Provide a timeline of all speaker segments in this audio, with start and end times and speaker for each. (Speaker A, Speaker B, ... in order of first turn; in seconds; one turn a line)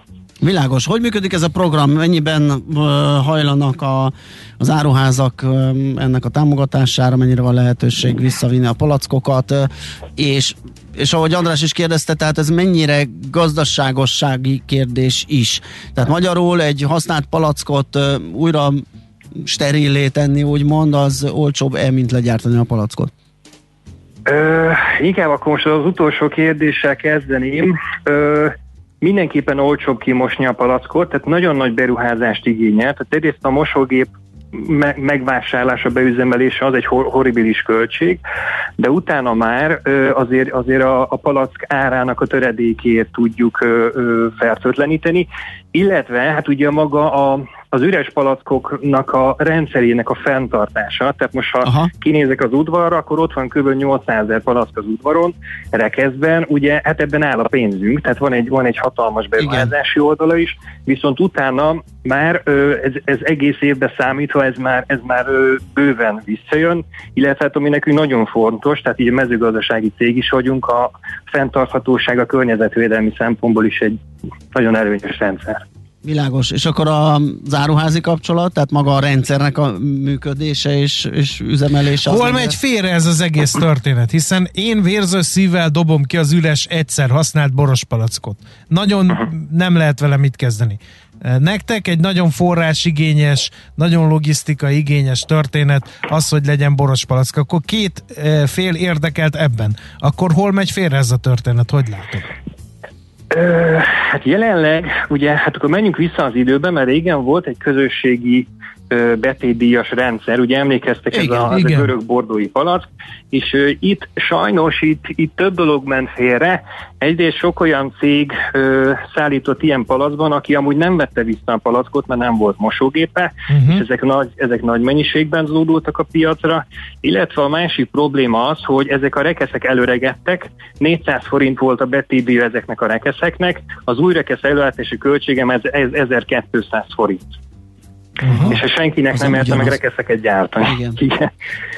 Speaker A: 0.4-18.8
Speaker A: 19.4-23.1
Speaker B: 24.3-38.2
Speaker B: 38.8-74.0
Speaker A: 51.6-51.9
Speaker A: 59.4-59.7
Speaker B: 74.5-75.6
Speaker A: 76.0-82.6
Speaker C: 82.0-102.3
Speaker B: 103.3-137.2
Speaker A: 111.1-111.4
Speaker C: 111.5-111.9
Speaker C: 123.5-123.8
Speaker C: 138.2-138.5
Speaker A: 138.3-138.6
Speaker B: 138.3-141.3
Speaker A: 139.1-139.8
Speaker A: 140.6-141.0